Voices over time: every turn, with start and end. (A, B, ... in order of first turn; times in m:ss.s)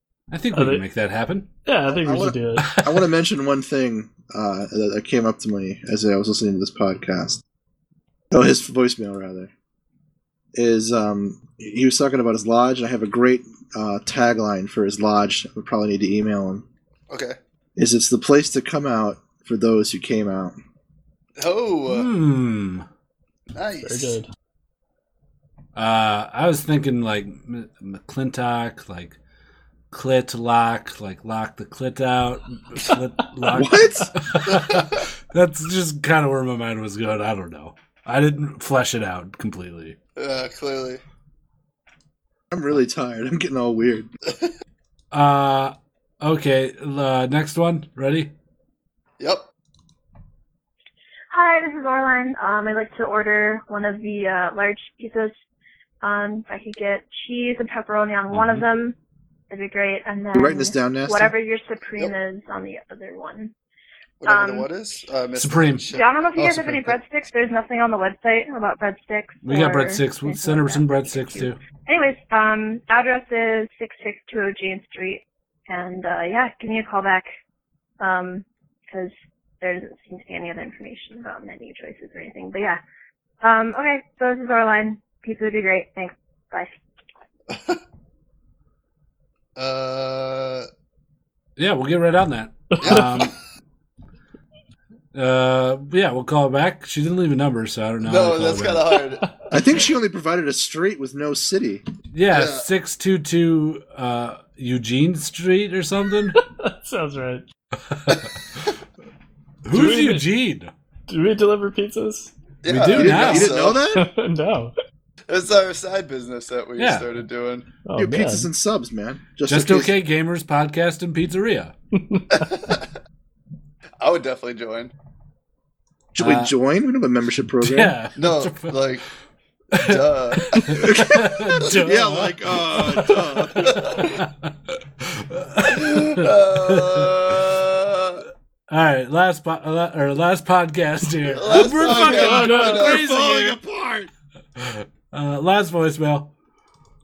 0:00.3-0:01.5 A
0:00.5-0:00.8 B
0:01.6-0:02.8 B
0:01.9-0:07.4 C
0:08.3-0:09.5 C
0:10.5-0:16.6 C
0:17.1-0:17.4 D
0:17.8-0:20.6 C
0:21.4-0:22.1 D
0:21.9-0:22.8 A
0:23.5-0:24.2 D
0:23.8-0:24.3 B
0:25.7-0:29.2 A
0:29.9-0:40.0 A
0:33.5-0:34.1 C
0:34.5-0:35.0 D
0:40.2-0:41.0 D
0:42.5-0:44.1 C
0:45.1-0:48.3 A
0:51.3-0:55.3 E
0:56.0-0:58.9 E
0:58.3-0:58.6 A
0:59.5-1:03.5 E
1:00.3-1:01.3 C
1:04.2-1:07.0 D
1:04.2-1:04.7 E
1:05.4-1:05.9 A
1:05.9-1:17.3 E
1:09.4-1:11.6 A
1:18.0-1:22.8 E
1:23.4-1:26.8 E
1:27.5-1:27.8 D
1:29.6-1:30.7 D
1:31.6-1:33.4 A
1:32.8-1:33.4 D
1:35.1-1:38.9 A
1:38.0-1:39.3 D
1:39.5-1:41.8 C
1:42.1-1:46.4 A
1:42.3-1:42.7 D
1:46.3-1:47.4 B
1:47.9-1:48.7 A
1:49.6-1:50.7 A
1:49.7-1:50.3 B
1:51.1-1:52.3 B
1:52.6-1:53.9 D
1:52.7-1:53.6 A
1:52.9-1:54.1 C
1:53.9-1:54.7 B
1:55.3-1:57.7 D
1:56.8-1:57.1 A
1:57.8-1:58.5 B
1:57.9-1:59.9 C
1:59.4-2:01.7 A
2:01.9-2:02.4 B
2:02.3-2:02.9 D
2:04.0-2:04.9 D
2:06.1-2:07.9 C
2:06.2-2:06.5 A
2:07.6-2:08.8 A
2:08.2-2:09.0 D
2:09.7-2:17.4 A
2:09.7-2:11.7 D
2:10.7-2:14.0 C
2:13.6-2:14.1 D
2:15.7-2:18.2 D
2:18.7-2:23.6 A
2:21.3-2:23.0 D
2:21.8-2:24.1 C
2:24.6-2:26.3 A